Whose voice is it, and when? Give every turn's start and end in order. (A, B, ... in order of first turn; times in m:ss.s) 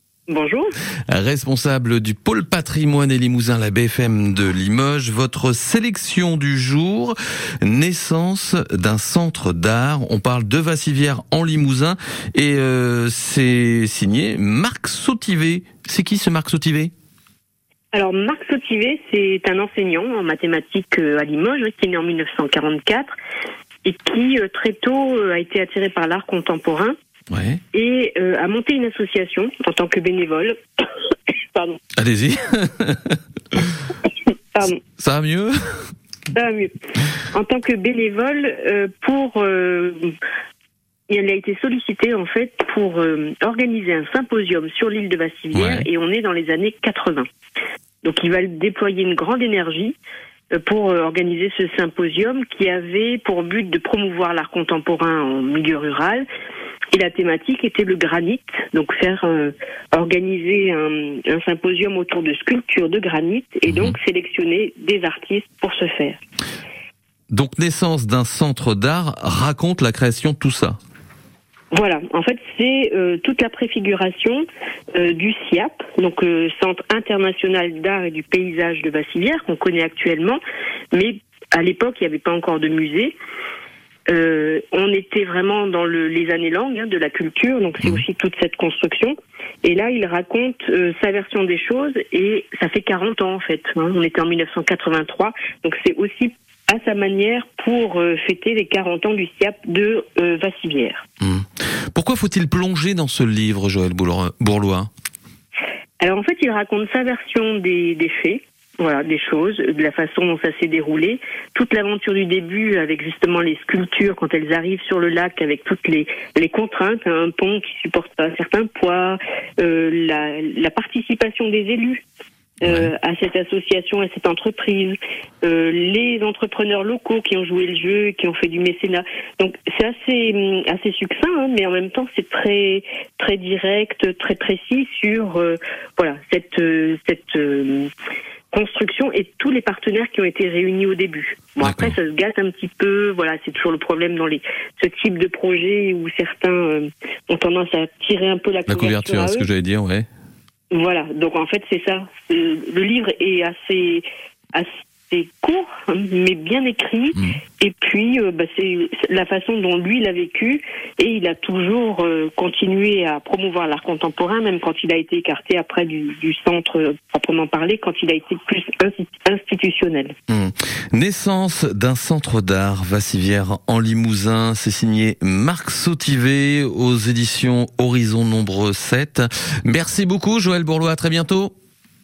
0:00.3-0:00.7 A
0:01.1-0:16.9 B
0:17.9-0:23.1 A
0:23.8-0:27.0 A
0:27.3-0:27.6 B
0:27.7-0:30.6 A
0:31.5-0:31.8 A
0:32.0-0:33.9 B
0:34.5-0:34.8 A
0:34.8-0:35.6 B
0:36.3-0:36.7 A
0:37.3-0:40.1 A
0:41.1-0:47.3 A
0:45.5-0:45.9 B
0:48.0-0:50.0 A
0:50.5-0:56.2 A
0:56.9-1:06.2 A
1:03.7-1:04.0 B
1:07.3-1:10.8 B
1:11.7-1:20.4 A
1:20.9-1:23.1 A
1:24.1-1:41.0 A
1:41.2-1:44.9 B
1:46.0-2:02.0 A
2:02.6-2:17.9 A
2:02.6-2:02.9 B
2:18.5-2:29.5 A
2:21.6-2:22.0 B
2:28.7-2:30.1 B
2:30.7-2:50.1 A
2:50.3-3:01.5 B